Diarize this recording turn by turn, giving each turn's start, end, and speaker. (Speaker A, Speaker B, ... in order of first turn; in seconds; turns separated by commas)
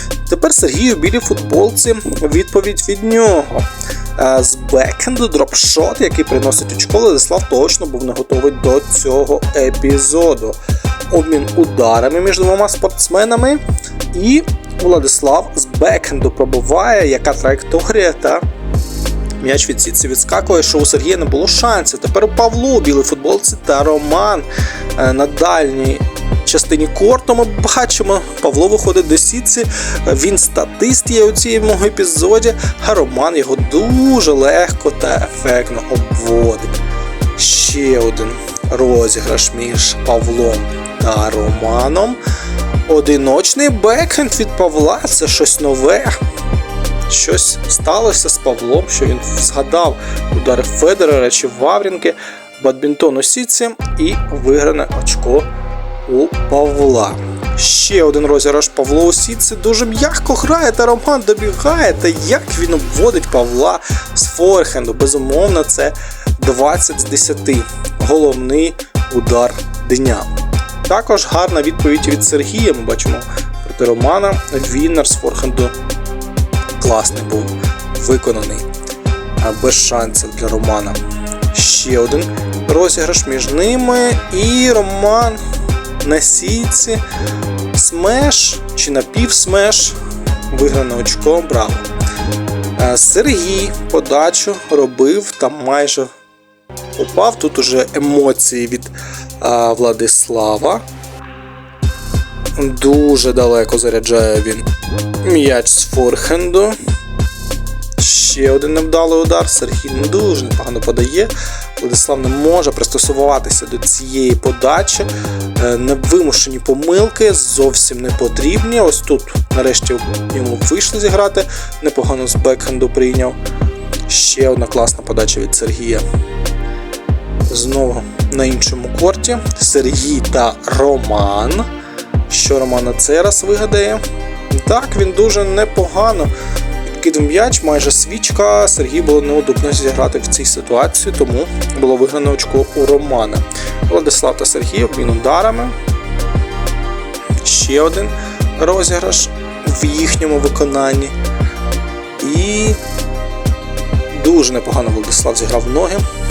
Speaker A: 0.2-10.6, Speaker A: 11.1-13.6, Speaker A: 14.1-18.4, Speaker A: 19.4-36.8, Speaker A: 37.4-42.2, Speaker A: 42.9-46.2, Speaker A: 47.1-55.5, Speaker A: 56.0-70.3, Speaker A: 70.8-75.7, Speaker A: 76.8-78.7, Speaker A: 79.4-81.0, Speaker A: 81.5-85.4, Speaker A: 86.0-87.0, Speaker A: 87.7-90.0, Speaker A: 90.5-91.9, Speaker A: 92.8-96.1, Speaker A: 97.0-100.8, Speaker A: 102.6-104.7, Speaker A: 105.2-106.8, Speaker A: 108.0-123.4, Speaker A: 124.1-126.0, Speaker A: 127.5-131.7, Speaker A: 132.3-136.3, Speaker A: 136.9-145.8, Speaker A: 147.4-151.2, Speaker A: 152.2-152.8, Speaker A: 154.1-156.0